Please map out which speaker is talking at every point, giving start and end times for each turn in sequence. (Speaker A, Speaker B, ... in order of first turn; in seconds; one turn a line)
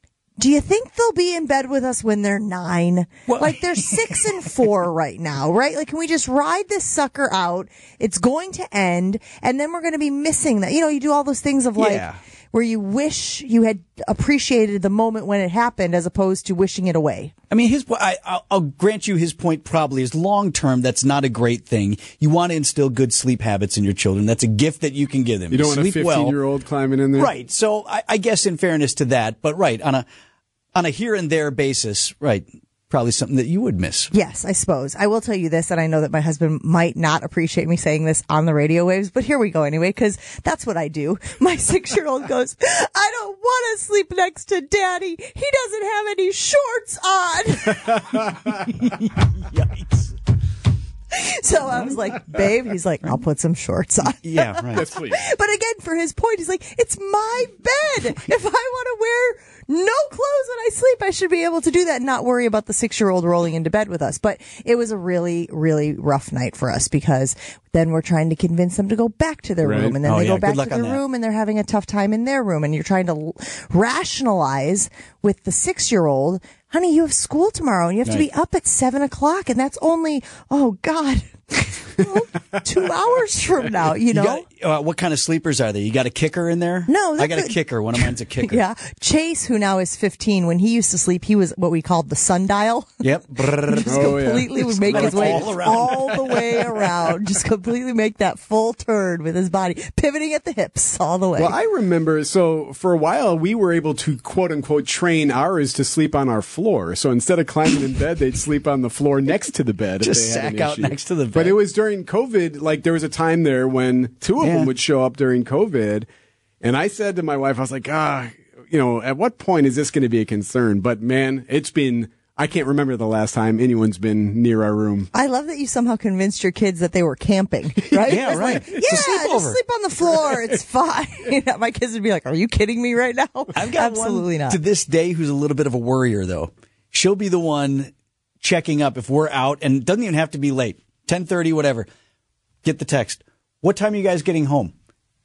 Speaker A: 0.4-17.3
Speaker B: 3.3-4.2
Speaker B: 11.8-12.2
Speaker B: 17.5-26.4
Speaker C: 25.5-27.3
Speaker B: 27.1-30.0
Speaker B: 30.7-34.1
Speaker A: 34.1-48.1
Speaker B: 48.5-50.1
Speaker A: 51.1-84.4
Speaker B: 54.2-54.9
Speaker C: 54.7-55.2
Speaker C: 69.6-70.0
Speaker B: 70.0-71.0
Speaker B: 84.1-88.6
Speaker A: 86.9-92.9
Speaker B: 93.0-94.2
Speaker A: 93.6-101.5
Speaker C: 93.8-95.6
Speaker B: 94.8-96.9
Speaker C: 101.4-116.0
Speaker B: 110.0-111.5
Speaker B: 114.4-114.7
Speaker C: 116.6-125.1
Speaker A: 125.1-134.6
Speaker B: 128.0-129.6
Speaker C: 128.1-128.4
Speaker B: 133.5-141.9
Speaker B: 142.6-144.7